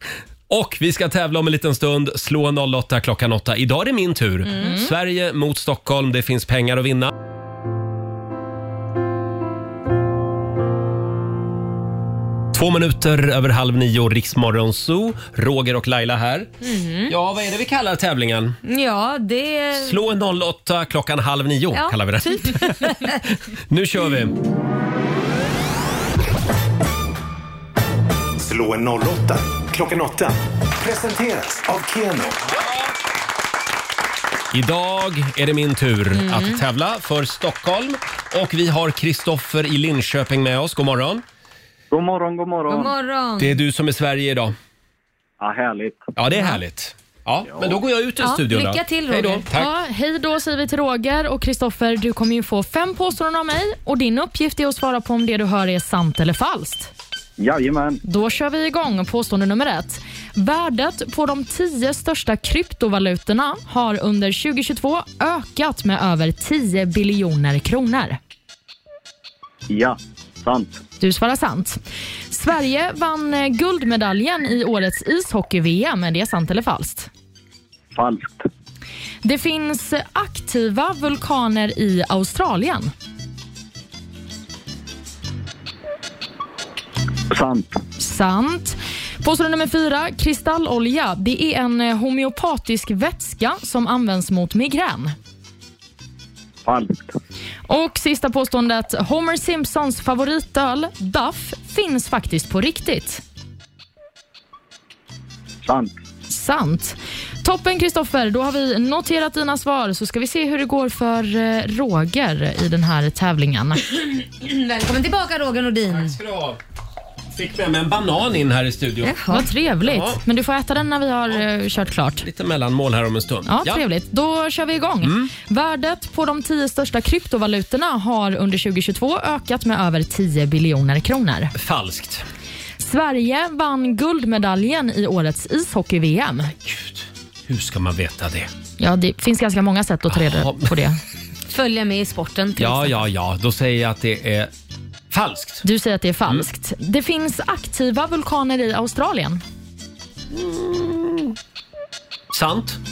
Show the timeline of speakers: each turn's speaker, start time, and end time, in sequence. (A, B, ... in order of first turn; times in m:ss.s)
0:00.5-0:07.1 A
0:04.5-0:04.8 B
0:04.6-0:04.9 C
0:12.5-0:16.5 A
0:16.6-0:17.1 B
0:17.1-0:18.6 A
0:18.6-0:20.0 B
0:19.7-0:23.2 A
0:21.7-0:23.2 B
0:23.7-0:24.4 A
0:28.4-0:32.4 D
0:34.5-0:41.2 A
0:36.2-0:36.6 B
0:41.9-0:42.9 E
0:42.7-0:43.6 B
0:43.4-0:44.5 A
0:45.4-0:46.1 E
0:46.2-0:49.7 A
0:48.2-0:49.5 B
0:49.5-0:56.9 C
0:57.4-0:58.0 E
0:58.0-1:08.2 C
1:09.7-1:10.8 E
1:11.0-1:11.8 C
1:12.3-1:17.1 C
1:17.9-1:18.5 E
1:19.2-1:22.9 C
1:27.3-1:27.8 E
1:28.0-1:35.2 C
1:36.6-1:37.1 E
1:37.7-1:43.2 C
1:45.6-1:45.9 E
1:46.3-1:53.8 C
1:54.2-1:56.1 B
1:55.9-1:56.6 A
1:57.3-1:59.1 A
1:59.0-1:59.5 B
1:59.3-2:02.3 C
1:59.8-2:00.2 A
2:02.2-2:03.8 A
2:03.5-2:11.5 C
2:05.0-2:05.3 A
2:11.6-2:12.2 A
2:12.8-2:16.5 C
2:16.6-2:18.5 A
2:18.8-2:21.0 C
2:20.1-2:20.8 A
2:21.5-2:23.0 B
2:22.6-2:24.5 A
2:25.1-2:25.6 A
2:25.6-2:29.4 C
2:30.3-2:31.4 A
2:32.3-2:32.8 A